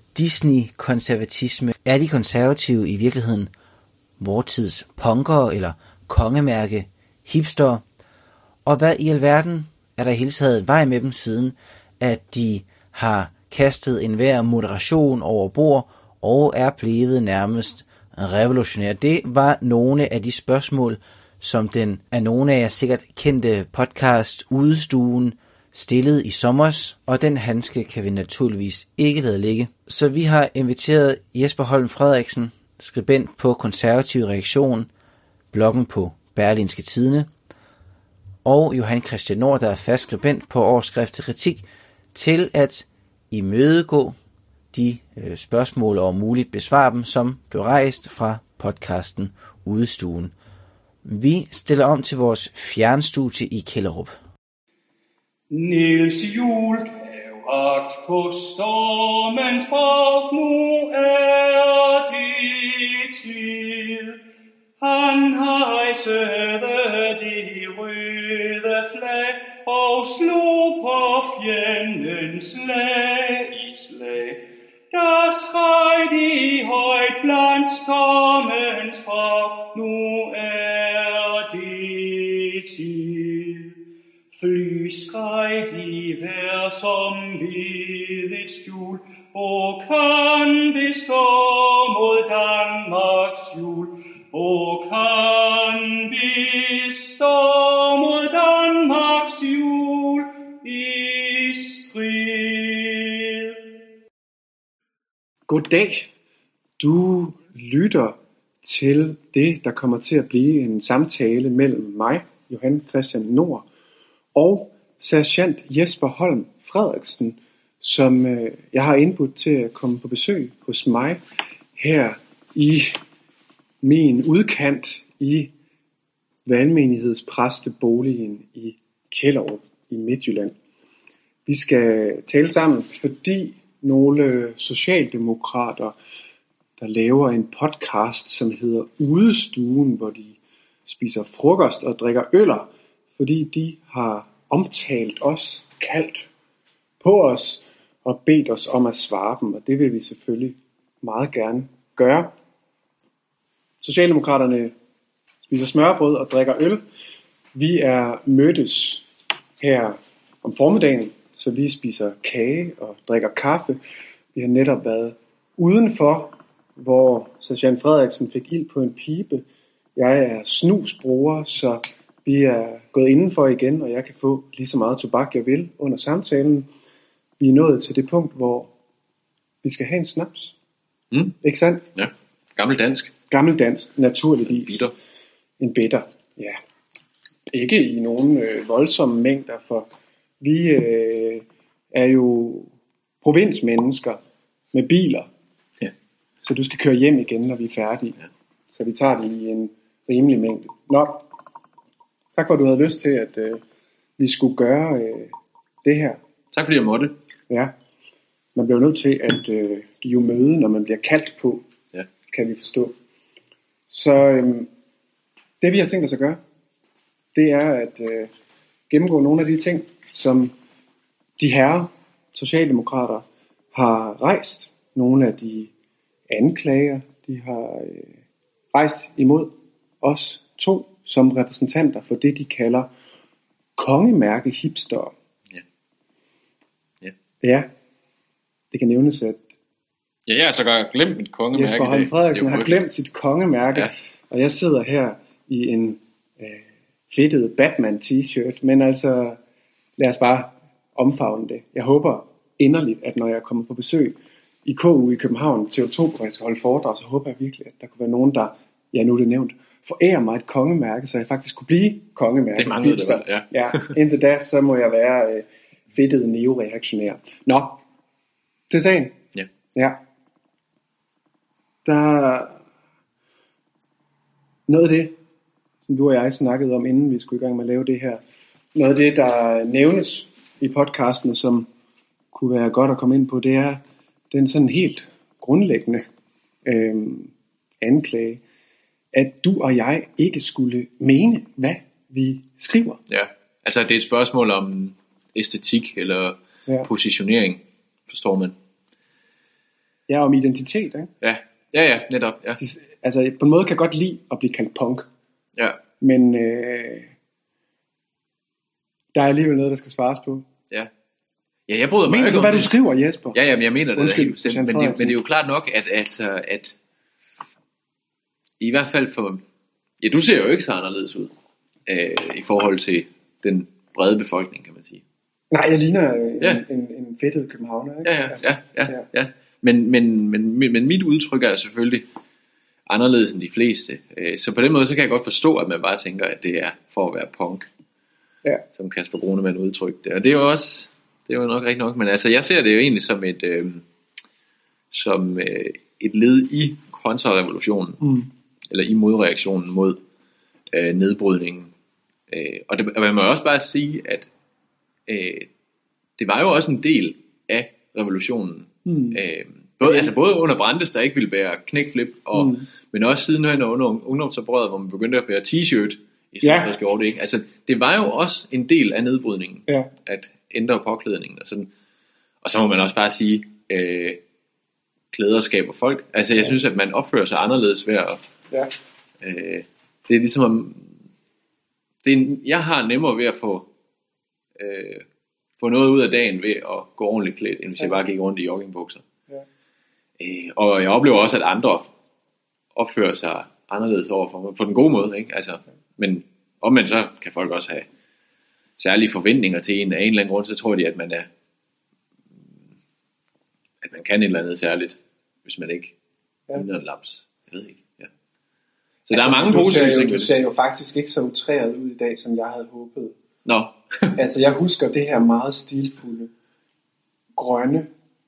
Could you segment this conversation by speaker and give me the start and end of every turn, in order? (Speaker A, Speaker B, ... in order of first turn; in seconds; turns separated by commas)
Speaker A: 0.1-3.5, Speaker A: 4.2-7.8, Speaker A: 8.6-34.9, Speaker A: 35.5-37.3, Speaker A: 38.4-44.1, Speaker A: 44.7-50.3, Speaker A: 51.0-54.2, Speaker B: 55.5-64.2, Speaker B: 64.8-83.7, Speaker B: 84.3-103.6, Speaker C: 105.5-106.1, Speaker C: 106.8-113.7, Speaker C: 114.3-121.2, Speaker C: 121.8-123.0, Speaker C: 123.8-125.5, Speaker C: 126.5-130.6, Speaker C: 131.4-135.9, Speaker C: 136.8-146.3, Speaker C: 147.0-152.3, Speaker C: 153.8-154.7, Speaker C: 155.4-156.8, Speaker C: 157.5-159.1, Speaker C: 159.6-163.8, Speaker C: 164.3-169.4, Speaker C: 169.9-176.7, Speaker C: 177.4-178.7, Speaker C: 179.6-180.5, Speaker D: 181.1-181.4, Speaker C: 181.4-181.8, Speaker D: 181.9-183.1, Speaker C: 183.3-184.9, Speaker D: 184.5-184.9, Speaker C: 185.6-186.6, Speaker C: 187.5-189.9, Speaker C: 190.4-192.7, Speaker C: 193.2-194.2, Speaker C: 194.7-195.3, Speaker C: 196.4-198.2, Speaker C: 198.7-201.2, Speaker C: 202.3-203.6, Speaker C: 204.2-206.2, Speaker D: 206.5-207.2, Speaker C: 208.5-211.6, Speaker C: 212.3-212.9, Speaker C: 213.9-214.7, Speaker C: 215.6-216.4, Speaker C: 217.3-218.3, Speaker C: 218.9-220.5, Speaker C: 221.4-225.7, Speaker C: 226.3-228.2, Speaker C: 228.7-232.9, Speaker C: 233.8-235.1, Speaker C: 237.4-237.7, Speaker C: 238.7-239.5, Speaker D: 240.3-242.8, Speaker C: 241.5-249.4, Speaker C: 250.0-267.8, Speaker D: 262.6-263.9, Speaker C: 268.7-269.2, Speaker C: 269.7-270.0, Speaker C: 271.8-272.6, Speaker C: 274.7-275.1, Speaker C: 275.9-278.2, Speaker C: 278.7-281.7, Speaker C: 282.3-286.1, Speaker C: 286.6-288.4, Speaker C: 289.1-293.0, Speaker D: 293.1-298.6, Speaker C: 300.1-301.1, Speaker D: 301.2-302.6, Speaker C: 302.6-305.1, Speaker C: 306.0-307.1, Speaker C: 309.1-310.5, Speaker D: 311.7-312.7, Speaker C: 312.1-313.4, Speaker D: 313.3-316.7, Speaker C: 313.9-315.1, Speaker D: 318.6-319.4, Speaker D: 320.0-321.3, Speaker D: 321.9-325.0, Speaker C: 325.5-329.0, Speaker D: 328.0-332.1, Speaker D: 332.9-337.7, Speaker D: 338.7-343.8, Speaker D: 344.9-348.0, Speaker C: 348.0-348.3, Speaker D: 348.7-350.0, Speaker D: 350.7-351.7, Speaker D: 352.3-354.3, Speaker D: 355.1-355.5, Speaker D: 356.2-371.7, Speaker C: 358.9-359.2, Speaker C: 359.8-360.1, Speaker C: 362.3-362.6, Speaker C: 366.4-366.7, Speaker D: 372.4-374.2, Speaker D: 375.1-378.2, Speaker D: 379.2-381.0, Speaker D: 382.0-383.7, Speaker D: 384.6-385.0, Speaker D: 385.6-389.0, Speaker D: 390.2-391.9, Speaker D: 392.7-397.9, Speaker D: 398.8-401.3, Speaker D: 403.8-405.9, Speaker D: 406.5-408.1, Speaker D: 409.1-410.3, Speaker C: 409.1-413.1, Speaker D: 413.4-414.1, Speaker C: 414.1-416.3, Speaker C: 417.4-417.9